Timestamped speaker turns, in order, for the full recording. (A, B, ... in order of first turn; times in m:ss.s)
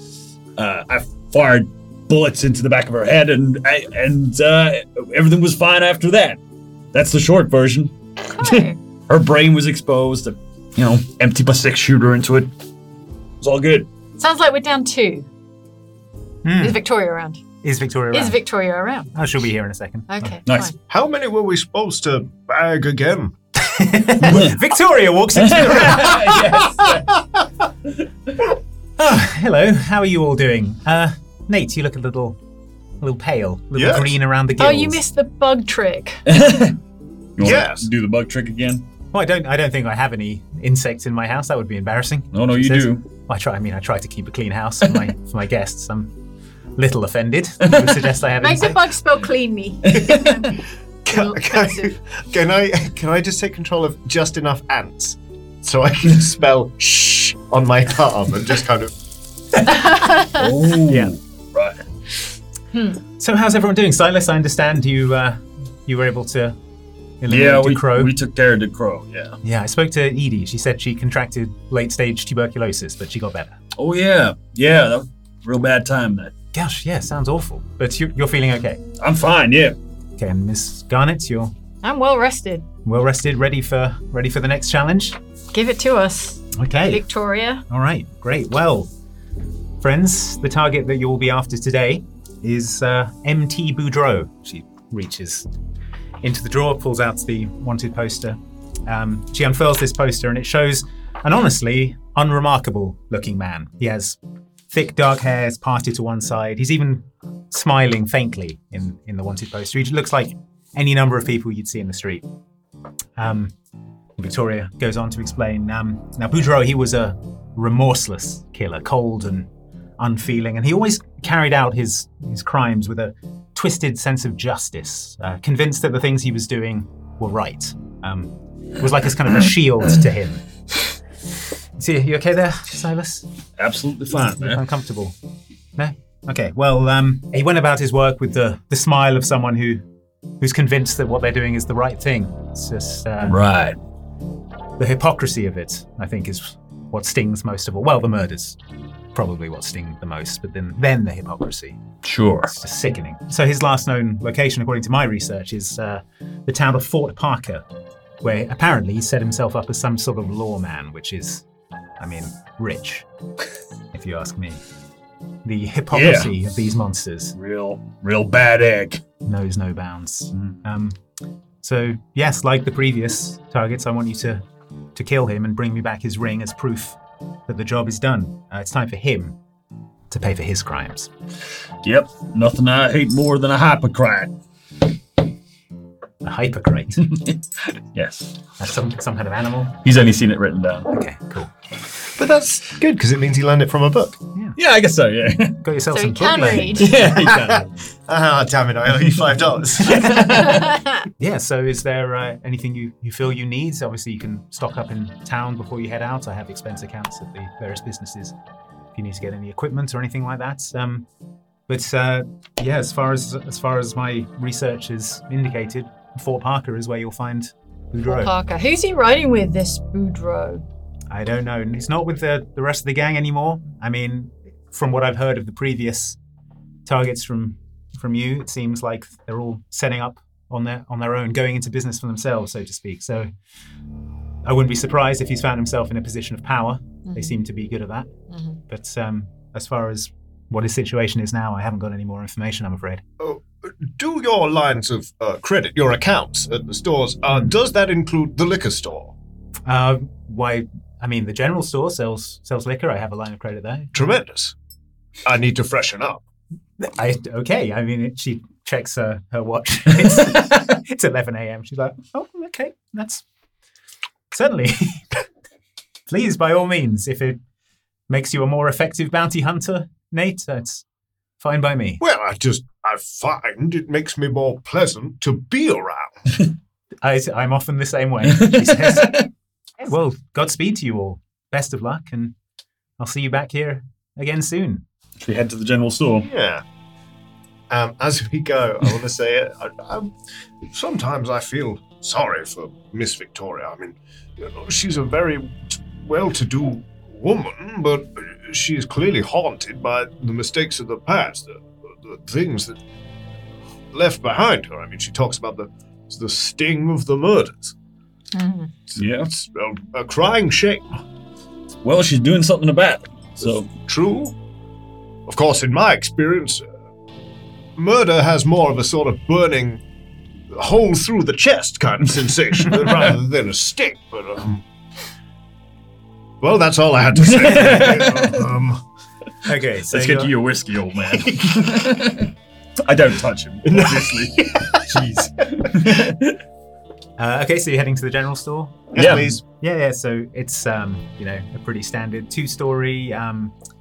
0:00.6-0:06.4 A
0:06.9-0:12.5 A
0:08.4-0:08.8 B
0:13.4-0:13.9 A
0:14.2-0:15.3 B
0:16.4-0:16.8 C
0:16.6-0:17.4 B
0:17.6-0:18.4 C
0:18.1-0:19.1 B
0:19.1-0:20.3 C
0:20.1-0:20.7 B
0:20.5-0:20.7 A
0:20.9-0:23.3 D
0:23.6-0:26.6 C
0:24.2-0:24.6 A
0:25.4-0:27.0 A
0:29.0-0:32.4 C
0:33.0-0:35.0 C
0:33.8-0:34.1 D
0:34.6-0:36.2 B
0:36.3-0:36.8 A
0:37.4-0:38.8 A
0:37.4-0:37.9 D
0:39.1-0:46.1 C
0:42.3-0:43.0 A
0:46.8-0:48.9 C
0:48.4-0:51.9 B
0:49.9-0:50.4 A
0:51.1-0:58.9 D
0:59.7-1:00.5 B
1:00.2-1:01.8 A
1:00.9-1:01.1 C
1:02.7-1:03.0 B
1:03.2-1:06.6 C
1:07.2-1:08.1 C
1:07.3-1:09.4 A
1:09.4-1:13.6 C
1:13.8-1:16.3 A
1:16.5-1:18.8 C
1:19.0-1:19.8 A
1:20.2-1:21.5 C
1:21.8-1:22.7 B
1:22.8-1:25.2 C
1:25.5-1:27.6 B
1:26.5-1:27.0 C
1:27.7-1:28.9 C
1:29.8-1:35.5 C
1:36.2-1:44.2 C
1:44.7-1:52.2 C
1:53.2-1:53.5 C
1:54.2-2:10.4 C
2:11.8-2:13.3 C
2:13.6-2:14.6 A
2:14.2-2:15.2 C
2:15.8-2:19.8 C
2:20.4-2:23.4 C
2:23.3-2:23.8 A
2:24.8-2:28.6 C
2:29.2-2:31.8 C
2:32.0-2:32.5 A
2:32.5-2:37.6 C
2:38.2-2:41.4 C
2:42.0-2:43.1 C
2:43.9-2:44.6 C
2:45.4-2:47.4 C
2:45.9-2:46.3 A
2:47.4-2:49.0 A
2:49.2-2:51.0 C
2:51.6-2:54.4 C
2:55.0-2:59.4 C
3:00.1-3:01.1 C
3:01.8-3:04.3 A
3:06.2-3:07.2 C
3:07.1-3:07.4 A
3:07.9-3:08.4 A
3:08.6-3:09.8 C
3:09.8-3:10.9 A
3:10.9-3:11.5 C
3:12.2-3:14.2 D
3:14.6-3:15.6 A
3:15.6-3:17.3 C
3:15.9-3:17.1 B
3:16.7-3:17.7 A
3:17.1-3:20.2 D
3:19.8-3:28.4 C
3:19.9-3:20.6 A
3:20.4-3:21.0 B
3:29.0-3:31.1 C
3:31.7-3:38.3 C
3:38.1-3:40.6 B
3:41.1-3:46.2 C
3:46.9-3:53.3 C
3:54.4-3:58.1 C
3:57.1-3:57.4 B
3:58.3-3:58.6 B
3:58.7-4:03.0 C
4:03.2-4:09.1 D
4:09.7-4:13.9 C
4:13.9-4:14.5 D
4:15.2-4:16.2 D
4:16.8-4:23.2 C
4:24.3-4:25.2 C
4:26.1-4:27.4 C
4:28.1-4:30.8 C
4:31.4-4:32.0 C
4:32.0-4:36.1 D
4:37.0-4:39.3 C
4:38.3-4:39.2 A
4:39.8-4:42.4 C
4:43.0-4:44.8 C
4:45.2-4:46.3 A
4:46.2-4:46.6 D
4:47.7-4:50.1 D
4:50.7-5:02.8 D
5:03.9-5:07.7 D
5:08.3-5:08.7 B
5:08.9-5:10.8 D
5:09.0-5:09.3 A
5:11.8-5:13.7 A
5:13.4-5:14.3 D
5:15.3-5:16.6 D
5:17.8-5:19.8 D
5:20.5-5:24.6 D
5:26.4-5:28.8 D
5:27.3-5:28.5 A
5:27.6-5:28.1 C
5:29.5-5:30.3 C
5:29.9-5:32.3 A
5:32.8-5:36.4 A
5:33.7-5:35.8 D
5:37.2-5:43.5 C
5:38.9-5:39.4 D
5:39.0-5:39.3 A